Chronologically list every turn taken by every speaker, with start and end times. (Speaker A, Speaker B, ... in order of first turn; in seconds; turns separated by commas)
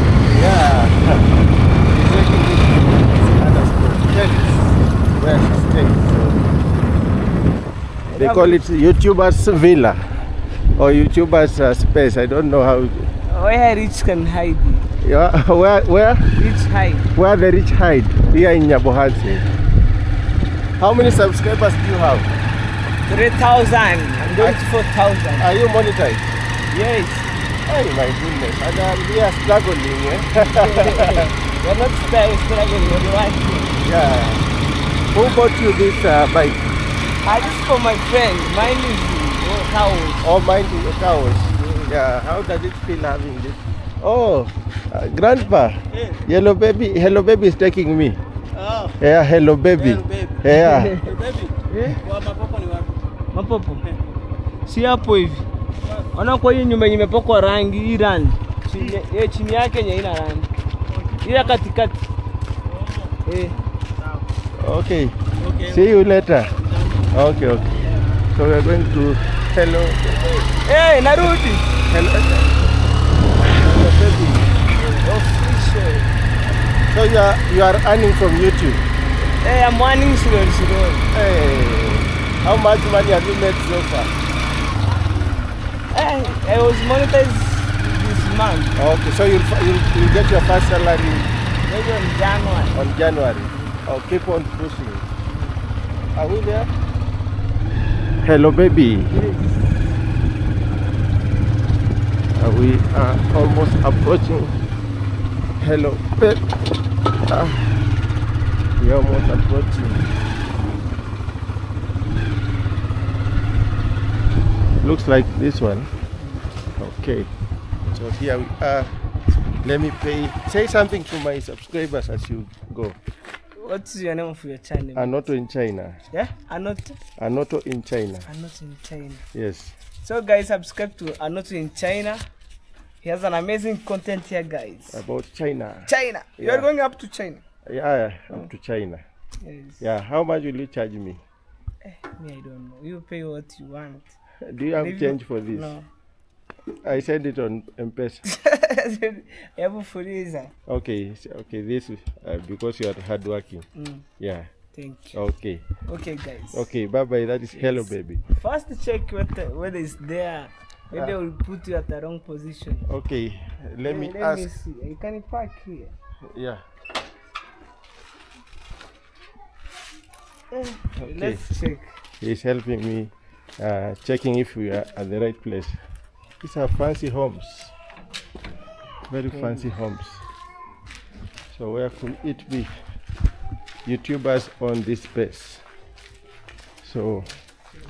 Speaker A: 0.2-1.3, Speaker A: 1.9-6.5, Speaker A: 8.1-10.0, Speaker B: 8.1-8.6, Speaker A: 10.8-13.1, Speaker B: 13.3-14.9, Speaker A: 15.0-16.3, Speaker B: 16.3-17.1, Speaker A: 17.1-19.5, Speaker A: 20.8-22.3, Speaker B: 23.1-25.5, Speaker A: 24.3-24.6, Speaker A: 25.4-26.3, Speaker B: 26.7-27.3, Speaker A: 27.6-31.3, Speaker B: 30.4-33.8, Speaker A: 33.8-34.5, Speaker A: 35.1-36.7, Speaker B: 37.2-40.3, Speaker A: 40.2-48.2, Speaker B: 41.6-41.9, Speaker C: 48.5-48.9, Speaker A: 49.0-51.0, Speaker C: 49.7-50.4, Speaker B: 50.5-51.1, Speaker C: 51.0-53.0, Speaker B: 51.7-52.0, Speaker B: 53.3-53.8, Speaker B: 54.7-55.5, Speaker B: 56.1-60.5, Speaker C: 60.9-61.6, Speaker B: 61.2-62.0, Speaker C: 62.6-63.2, Speaker B: 63.2-63.6, Speaker C: 64.0-64.3, Speaker A: 64.6-66.5, Speaker C: 65.4-65.8, Speaker C: 66.7-67.0, Speaker A: 67.1-67.8, Speaker A: 68.3-70.4, Speaker B: 70.6-71.7, Speaker A: 71.8-72.7, Speaker A: 73.4-74.5, Speaker B: 74.8-76.1, Speaker A: 76.9-78.8, Speaker B: 79.4-81.1, Speaker A: 81.1-84.1, Speaker B: 85.9-88.8, Speaker A: 88.8-91.3, Speaker B: 91.7-92.8, Speaker A: 92.7-95.1, Speaker A: 96.1-96.7, Speaker A: 98.2-99.1, Speaker B: 99.1-99.7, Speaker A: 102.3-104.6, Speaker A: 105.6-106.5, Speaker A: 107.3-107.8, Speaker A: 108.8-110.1, Speaker A: 114.8-115.9, Speaker A: 116.8-117.3, Speaker A: 117.9-118.9, Speaker A: 119.6-123.0, Speaker B: 123.6-125.2, Speaker A: 124.9-126.0, Speaker B: 126.1-127.0, Speaker A: 127.2-128.3, Speaker B: 128.2-129.2, Speaker A: 129.3-129.7, Speaker B: 130.0-132.2, Speaker B: 133.0-135.0, Speaker A: 134.9-136.7, Speaker B: 135.8-137.4, Speaker A: 137.7-139.0, Speaker B: 139.4-139.8, Speaker A: 139.8-141.2, Speaker B: 141.8-144.1, Speaker A: 144.4-145.7, Speaker B: 144.8-145.8, Speaker A: 146.8-148.2, Speaker B: 148.3-150.5, Speaker A: 150.7-153.7, Speaker B: 153.7-154.1, Speaker A: 154.2-154.5, Speaker B: 154.7-155.2, Speaker A: 155.1-155.6, Speaker B: 155.8-156.6, Speaker A: 156.5-158.2, Speaker B: 157.5-162.9, Speaker A: 162.8-164.5, Speaker B: 163.8-165.9, Speaker A: 166.3-166.6, Speaker B: 170.5-171.9, Speaker A: 171.0-171.4, Speaker A: 172.2-175.8, Speaker A: 176.4-177.7, Speaker A: 179.1-180.2, Speaker B: 179.3-179.7, Speaker A: 181.5-182.7, Speaker A: 183.8-185.6, Speaker A: 186.8-187.3